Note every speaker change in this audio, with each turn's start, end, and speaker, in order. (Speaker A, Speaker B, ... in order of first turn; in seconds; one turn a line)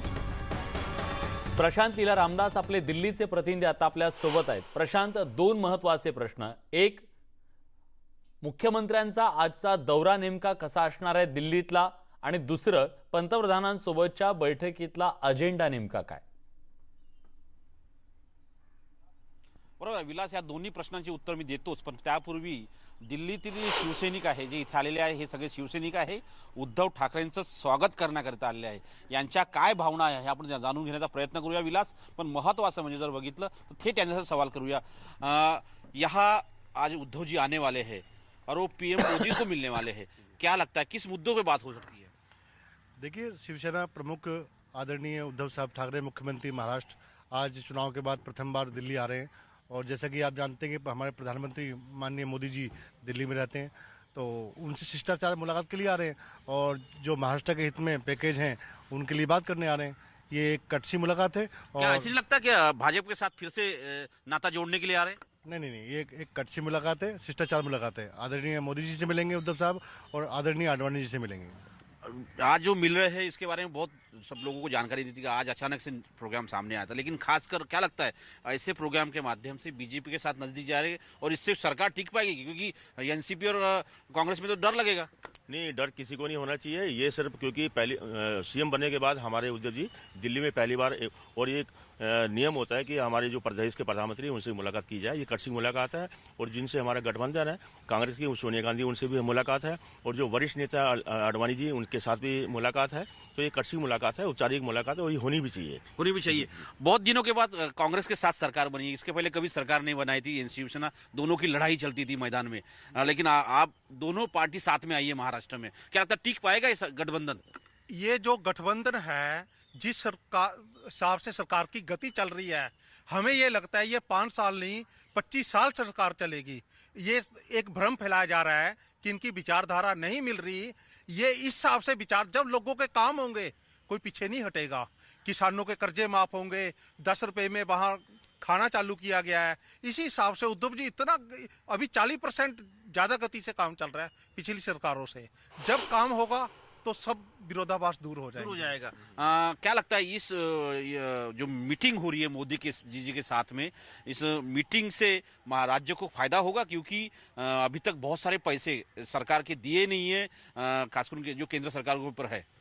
Speaker A: 1.6-7.0
Speaker A: 8.4-16.2
Speaker B: 19.8-42.1
Speaker C: 43.0-62.1
Speaker B: 61.8-65.2
Speaker C: 65.5-71.6
Speaker B: 72.0-85.1
Speaker D: 85.5-106.6
Speaker B: 106.0-117.4
Speaker E: 117.9-148.7
Speaker B: 148.4-162.4